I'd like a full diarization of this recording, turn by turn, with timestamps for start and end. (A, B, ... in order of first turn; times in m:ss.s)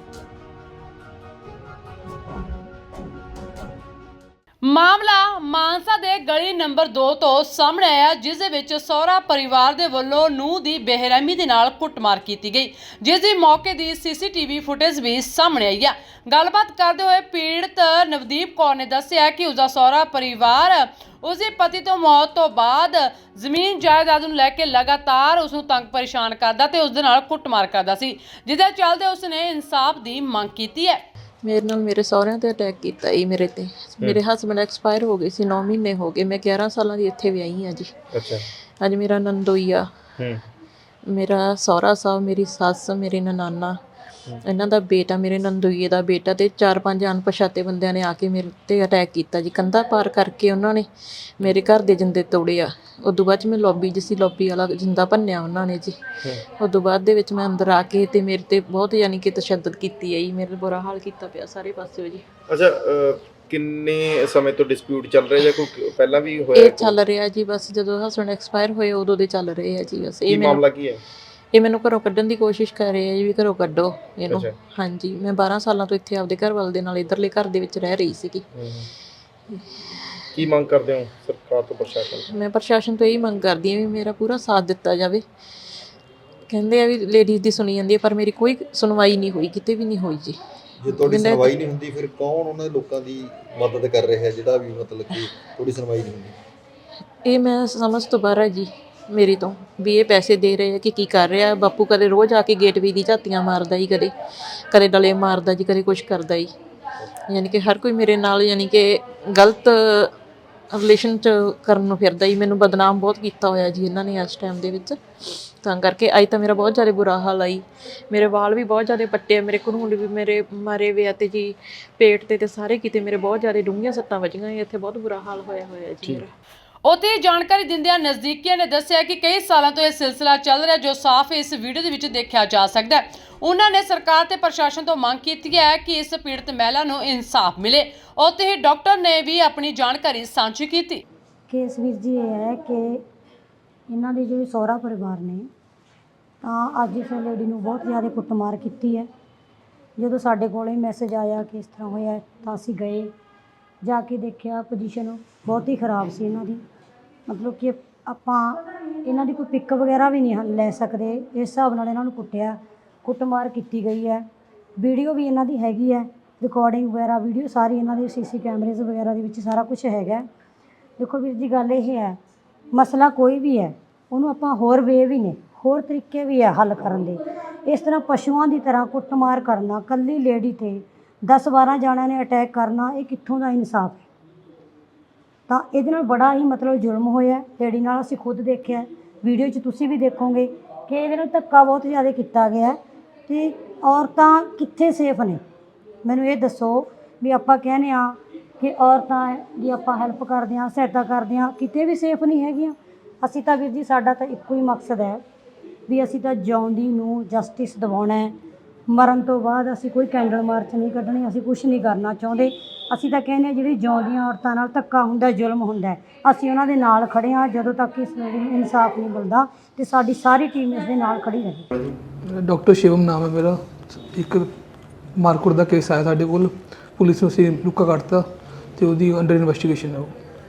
0:04.6-0:31.0 A
0:31.4-0:38.1 B
0:38.1-0:38.4 C
0:38.8-0:39.9 B
0:41.1-0:43.8 B
0:44.4-0:50.9 B
0:51.4-0:55.9 B
0:56.5-1:02.2 B
1:02.5-1:07.0 C
1:06.5-1:10.6 B
1:10.3-1:11.0 C
1:11.5-1:18.4 B
1:18.6-1:18.9 C
1:20.4-1:22.3 C
1:22.3-1:25.2 B
1:26.5-1:30.4 B
1:30.8-1:36.4 D
1:30.9-1:31.5 B
1:37.2-1:44.1 B
1:44.7-1:46.5 B
1:47.3-1:50.1 B
1:50.7-2:06.3 B
2:06.8-2:21.0 A
2:21.5-2:23.0 E
2:23.9-2:25.5 E
2:26.4-2:29.1 E
2:30.0-2:33.1 E
2:33.8-2:36.6 E
2:37.3-2:44.3 E
2:44.8-2:50.3 E
2:51.0-2:52.2 E
2:52.7-3:04.0 E
3:05.5-3:15.4 E
3:16.0-3:25.2 E
3:25.9-3:28.4 E
3:28.9-3:41.7 E
3:42.2-3:44.5 F
3:45.2-3:48.2 F
3:48.8-3:50.2 F